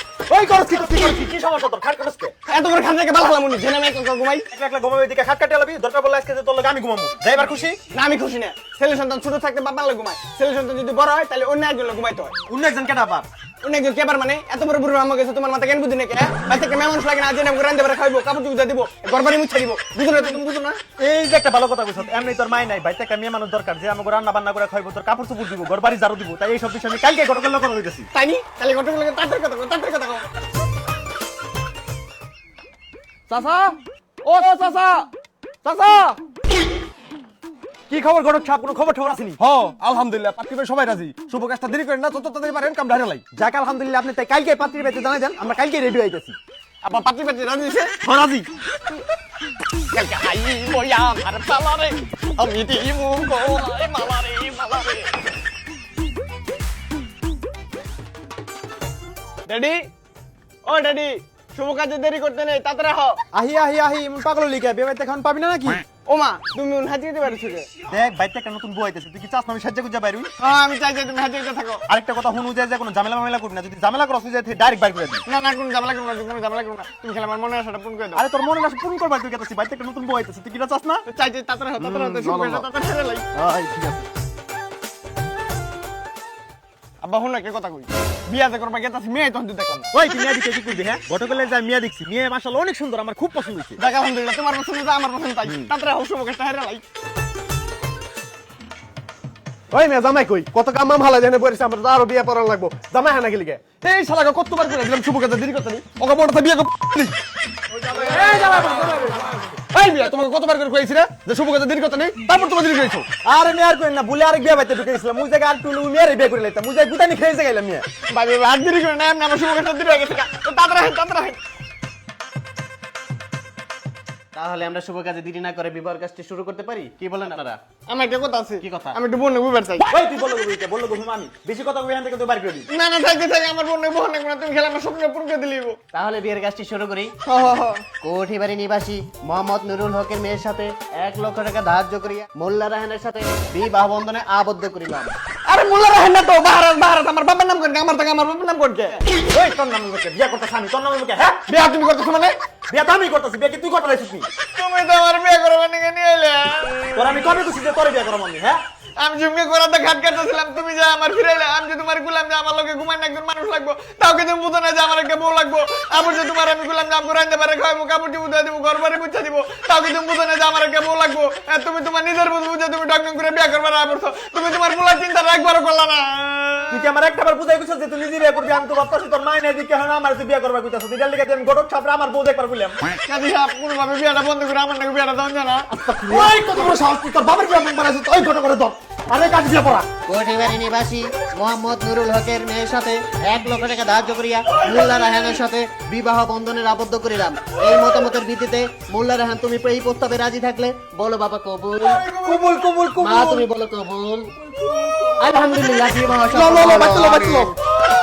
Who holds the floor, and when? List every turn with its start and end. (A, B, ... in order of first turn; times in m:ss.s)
0:00.3-0:02.3 A
0:02.4-0:04.4 B
0:04.5-0:07.8 A
0:07.9-0:12.4 B
0:12.5-0:13.3 A
0:13.6-0:20.8 B
0:21.0-0:28.1 A
0:28.1-0:30.2 B
0:33.3-0:35.1 C
0:35.6-0:36.2 C
0:37.9-0:39.4 A
0:39.4-0:43.2 C
0:43.3-0:46.4 A
0:46.8-0:48.0 B
0:48.0-0:48.5 A
0:49.9-0:55.2 B
0:59.4-0:59.9 B
1:00.6-1:03.2 B
1:03.3-1:05.8 A
1:06.0-1:07.7 B
1:07.9-1:10.3 A
1:10.4-1:11.8 B
1:11.9-1:15.2 A
1:15.2-1:18.2 B
1:18.1-1:21.0 A
1:21.0-1:23.2 B
1:21.8-1:22.6 A
1:23.3-1:24.0 A
1:27.0-1:29.9 B
1:29.9-1:33.8 A
1:33.8-1:36.8 B
1:39.7-1:47.2 C
1:47.9-1:53.1 C
1:53.2-1:57.8 A
1:58.1-2:01.4 B
2:04.3-2:07.6 D
2:07.9-2:09.9 B
2:08.6-2:09.0 D
2:09.9-2:12.7 A
2:12.7-2:15.8 B
2:15.9-2:17.1 D
2:17.2-2:17.8 B
2:18.0-2:25.1 D
2:25.5-2:29.0 B
2:29.3-2:31.4 A
2:31.5-2:32.4 B
2:32.7-2:34.3 A
2:34.5-2:37.3 B
2:36.9-2:38.6 A
2:39.0-2:56.8 B
2:56.7-3:02.8 A
3:03.0-3:05.8 B
3:05.9-3:06.9 A
3:06.1-3:09.8 C
3:09.1-3:09.8 A
3:10.0-3:22.2 D
3:22.2-3:22.7 A
3:22.2-3:23.4 C
3:23.0-3:24.3 D
3:25.2-3:27.5 D
3:26.3-3:27.5 C